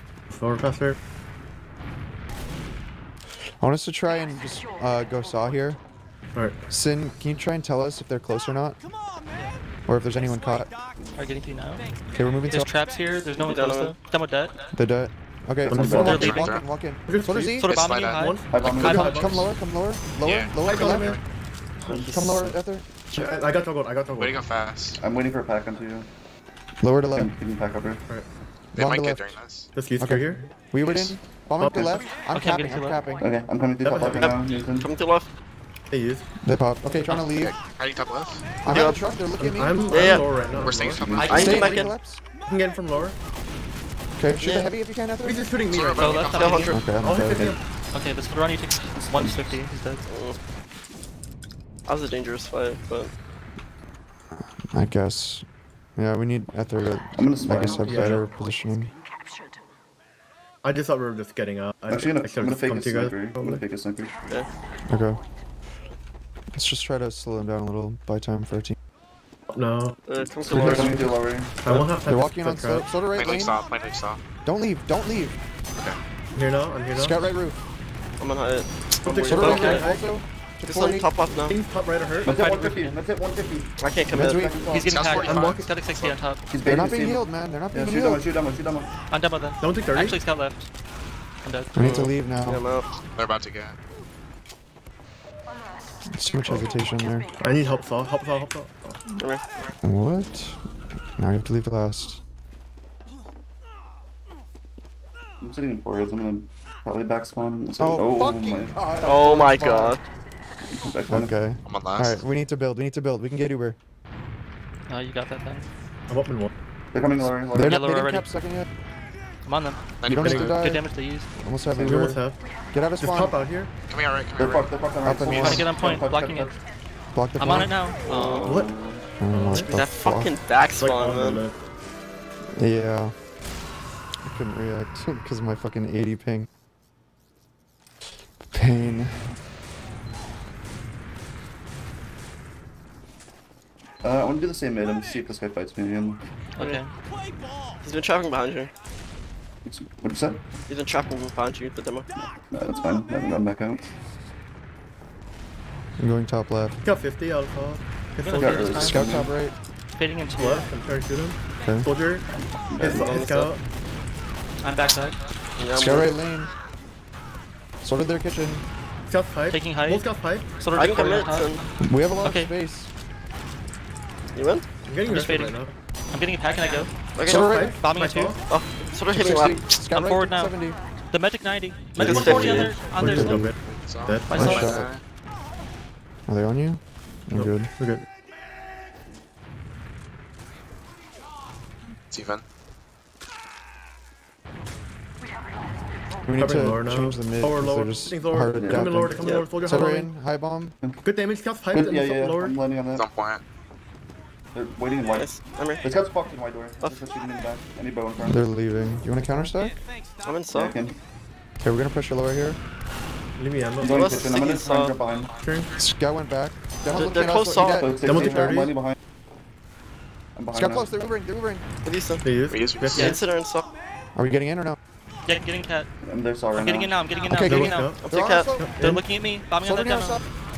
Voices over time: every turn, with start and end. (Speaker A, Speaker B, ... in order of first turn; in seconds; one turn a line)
Speaker A: 0.3-1.0
Speaker B: 3.6-5.8
Speaker A: 6.3-6.6
Speaker B: 6.7-8.8
Speaker B: 9.8-10.7
Speaker C: 11.2-11.9
Speaker B: 12.1-12.7
Speaker C: 12.5-14.7
Speaker D: 13.4-13.9
Speaker B: 14.7-17.7
Speaker A: 15.7-16.4
Speaker E: 15.7-16.2
Speaker C: 16.0-16.6
Speaker F: 16.0-16.6
Speaker A: 17.1-17.6
Speaker C: 17.6-19.2
Speaker F: 17.7-18.9
Speaker A: 18.1-19.4
Speaker E: 18.5-19.2
Speaker B: 18.8-21.2
Speaker F: 20.2-21.2
Speaker A: 20.6-21.2
Speaker A: 21.8-22.6
Speaker E: 21.9-22.2
Speaker B: 22.1-22.8
Speaker A: 23.1-24.4
Speaker F: 24.1-25.0
Speaker E: 25.0-26.1
Speaker B: 26.8-27.3
Speaker E: 27.1-28.0
Speaker F: 28.7-29.7
Speaker B: 28.8-29.4
Speaker A: 29.7-30.5
Speaker B: 30.0-33.2
Speaker F: 30.8-31.1
Speaker A: 31.6-32.1
Speaker C: 32.3-33.0
Speaker E: 33.2-34.9
Speaker A: 33.8-34.3
Speaker D: 34.2-35.3
Speaker A: 35.9-36.3
Speaker B: 36.4-37.5
Speaker F: 37.1-38.6
Speaker B: 38.6-40.2
Speaker D: 38.7-39.0
Speaker A: 39.4-41.2
Speaker D: 39.9-40.3
Speaker E: 40.5-41.6
Speaker F: 40.5-41.7
Speaker C: 41.1-41.9
Speaker D: 41.2-41.9
Speaker B: 41.3-42.2
Speaker A: 42.5-43.2
Speaker B: 44.2-45.5
Speaker D: 44.4-44.7
Speaker A: 45.2-46.4
Speaker F: 45.7-46.8
Speaker C: 46.0-46.8
Speaker D: 46.3-46.8
Speaker B: 46.7-47.4
Speaker A: 46.9-47.6
Speaker C: 47.9-50.0
Speaker E: 49.1-49.5
Speaker D: 50.1-50.4
Speaker D: 51.9-53.1
Speaker B: 54.3-55.4
Speaker B: 56.0-58.9
Speaker E: 57.1-58.2
Speaker A: 57.8-58.3
Speaker A: 60.6-63.6
Speaker E: 61.9-64.1
Speaker B: 64.9-65.2
Speaker B: 66.5-68.8
Speaker A: 69.5-71.0
Speaker D: 70.0-71.0
Speaker E: 70.5-71.8
Speaker B: 70.5-71.1
Speaker A: 71.6-72.9
Speaker B: 72.0-73.6
Speaker F: 73.1-74.2
Speaker B: 74.4-75.4
Speaker A: 76.3-77.2
Speaker B: 76.9-77.6
Speaker D: 78.2-79.9
Speaker A: 79.0-80.1
Speaker B: 79.3-81.1
Speaker C: 79.3-79.8
Speaker D: 80.6-81.5
Speaker A: 81.5-82.4
Speaker E: 82.2-85.0
Speaker C: 82.2-83.0
Speaker D: 83.8-84.5
Speaker B: 84.1-84.6
Speaker C: 84.7-86.4
Speaker F: 84.8-86.2
Speaker A: 85.1-85.7
Speaker E: 86.5-88.9
Speaker B: 86.6-88.2
Speaker C: 89.1-90.7
Speaker A: 89.6-90.2
Speaker C: 91.4-91.8
Speaker B: 91.7-92.6
Speaker D: 91.7-92.8
Speaker F: 93.1-93.8
Speaker B: 96.1-97.3
Speaker A: 97.4-99.0
Speaker D: 99.1-99.4
Speaker B: 99.8-100.6
Speaker B: 101.2-102.2
Speaker E: 105.4-108.8
Speaker B: 107.8-110.0
Speaker D: 109.0-110.0
Speaker E: 110.7-111.4
Speaker B: 111.1-113.8
Speaker F: 111.6-112.2
Speaker C: 114.9-115.7
Speaker A: 116.1-116.5
Speaker E: 116.9-117.8
Speaker B: 117.5-118.7
Speaker C: 117.5-118.3
Speaker C: 119.4-121.3
Speaker F: 120.0-120.6
Speaker B: 120.1-120.8
Speaker A: 120.2-120.5
Speaker B: 121.4-123.4
Speaker E: 121.7-122.1
Speaker A: 121.8-122.4
Speaker A: 123.0-123.7
Speaker F: 123.9-124.7
Speaker E: 124.4-126.5
Speaker B: 125.0-125.7
Speaker C: 125.2-126.5
Speaker B: 127.1-127.7
Speaker C: 127.4-128.4
Speaker D: 128.1-128.6
Speaker E: 128.1-129.1
Speaker A: 128.4-128.7
Speaker B: 129.2-130.3
Speaker A: 129.3-129.7
Speaker D: 129.5-131.4
Speaker A: 130.8-131.5
Speaker B: 132.6-133.1
Speaker B: 134.2-136.5
Speaker B: 138.5-139.3
Speaker E: 144.0-146.2
Speaker C: 146.6-146.9
Speaker D: 147.8-148.7
Speaker E: 149.6-150.4
Speaker D: 150.7-152.1
Speaker E: 152.3-153.9
Speaker B: 156.0-156.8
Speaker A: 156.8-158.8
Speaker C: 158.2-159.1
Speaker E: 158.4-159.3
Speaker B: 158.8-159.5
Speaker C: 159.9-160.7
Speaker A: 160.3-162.3
Speaker B: 161.6-161.9
Speaker E: 162.3-163.3
Speaker A: 162.8-163.6
Speaker D: 163.0-163.5
Speaker C: 164.6-165.2
Speaker D: 165.6-166.1
Speaker B: 165.7-166.5
Speaker B: 167.8-168.6
Speaker A: 169.1-170.7
Speaker C: 169.5-170.0
Speaker C: 170.6-171.6
Speaker D: 170.7-171.6
Speaker B: 171.8-172.9
Speaker C: 172.2-172.5
Speaker D: 174.3-174.7
Speaker A: 174.8-175.7
Speaker C: 175.1-175.6
Speaker C: 176.1-176.9
Speaker D: 177.2-177.6
Speaker B: 177.2-177.7
Speaker A: 177.2-178.4
Speaker C: 177.7-178.4
Speaker D: 178.5-179.7
Speaker B: 179.1-180.8
Speaker C: 179.8-180.5
Speaker C: 181.1-183.4
Speaker D: 182.0-182.8
Speaker B: 182.0-183.4
Speaker A: 182.2-184.7
Speaker E: 182.3-182.6
Speaker F: 183.1-185.0
Speaker C: 184.3-184.8
Speaker B: 184.3-184.9
Speaker B: 186.3-187.8
Speaker A: 187.3-188.0
Speaker F: 192.1-192.4
Speaker B: 196.2-200.8
Speaker A: 196.4-200.1
Speaker E: 198.5-199.0
Speaker D: 199.2-199.5
Speaker A: 201.0-202.6
Speaker E: 201.7-203.1
Speaker F: 202.9-203.4
Speaker E: 204.5-205.3
Speaker D: 205.1-205.8
Speaker E: 205.8-208.4
Speaker B: 208.2-209.8
Speaker D: 210.2-210.8
Speaker E: 210.5-211.0
Speaker B: 211.6-212.6
Speaker A: 213.3-214.1
Speaker E: 213.8-215.3
Speaker D: 213.8-214.9
Speaker A: 215.4-215.7
Speaker B: 215.8-218.6
Speaker D: 216.9-217.9
Speaker E: 217.8-219.0
Speaker A: 217.9-218.7
Speaker E: 220.3-220.9
Speaker B: 220.5-221.6
Speaker D: 221.8-222.2
Speaker A: 222.2-223.2
Speaker F: 222.5-223.1
Speaker D: 222.9-223.6
Speaker B: 224.1-224.8
Speaker C: 225.2-225.9
Speaker E: 226.0-226.9
Speaker C: 226.5-227.9
Speaker B: 227.2-229.0
Speaker A: 227.4-228.1
Speaker D: 228.0-228.5
Speaker A: 228.6-228.9
Speaker C: 228.8-230.2
Speaker B: 229.6-230.2